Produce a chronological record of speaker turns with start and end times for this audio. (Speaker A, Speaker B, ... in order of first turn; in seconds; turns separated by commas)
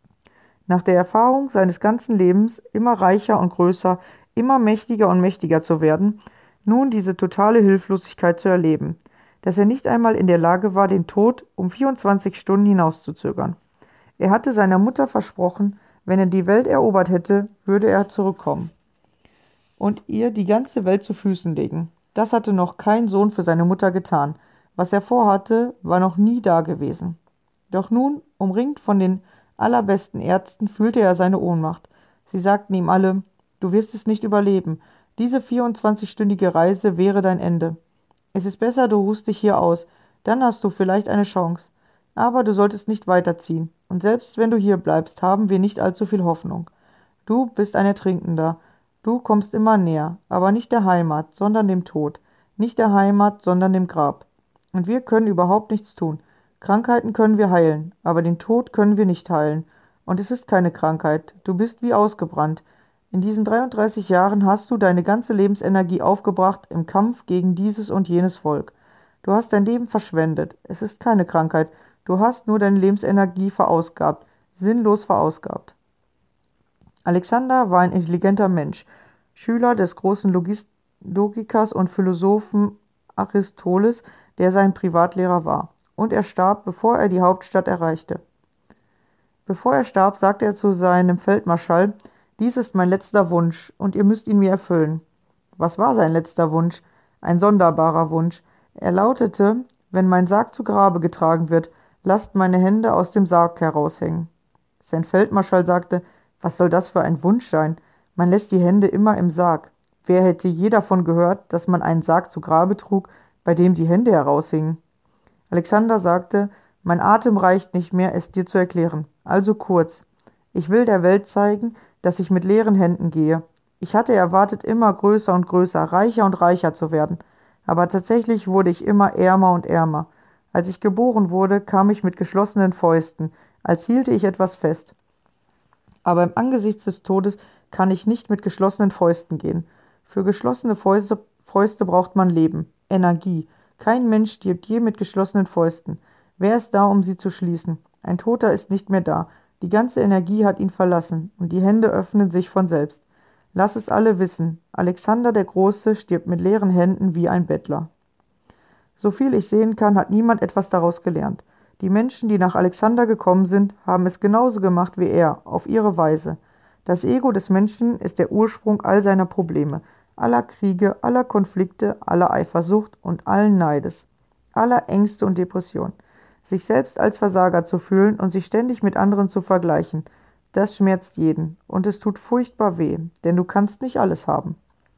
Speaker A: 0.7-13.6, Speaker A: 14.2-18.7, Speaker A: 19.8-27.2, Speaker A: 27.7-37.8, Speaker A: 38.3-46.7, Speaker A: 47.2-75.7, Speaker A: 77.0-88.2, Speaker A: 89.5-95.0, Speaker A: 95.6-104.3, Speaker A: 104.8-114.8, Speaker A: 115.5-134.9, Speaker A: 136.0-153.0, Speaker A: 153.5-157.9, Speaker A: 159.0-184.6